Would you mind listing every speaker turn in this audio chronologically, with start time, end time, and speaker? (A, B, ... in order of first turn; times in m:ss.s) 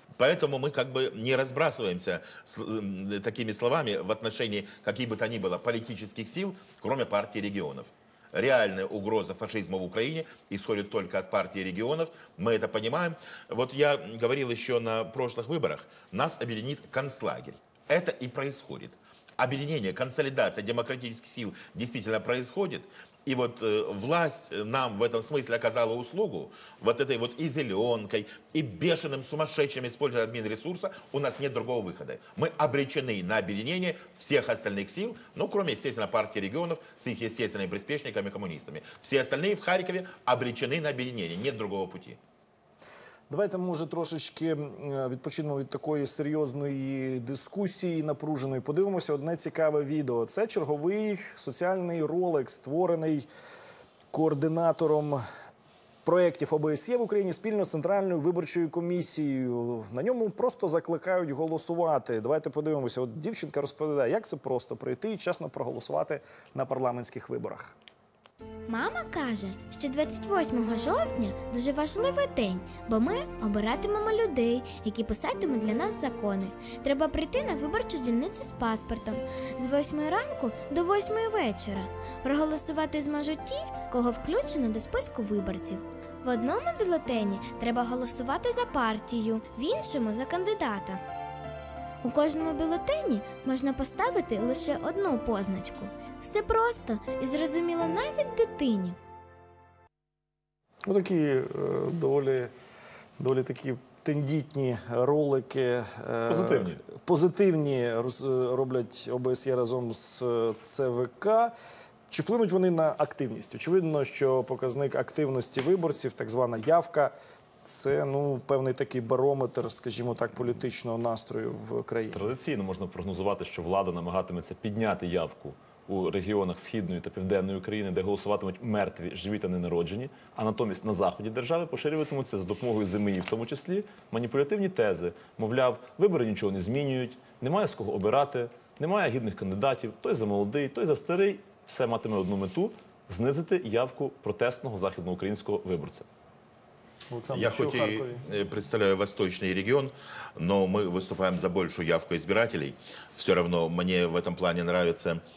0:00.2-0:42.2 A
0:43.3-0:53.3 B
0:54.1-0:55.2 B
0:56.0-1:07.8 B
1:08.7-1:31.0 C
1:32.0-1:39.0 C
1:40.9-1:42.5 B
1:43.2-1:51.5 B
1:46.3-1:46.8 D
1:52.1-1:57.1 B
1:57.6-2:02.2 B
2:02.1-2:26.1 D
2:27.1-2:28.2 B
2:27.3-2:35.2 A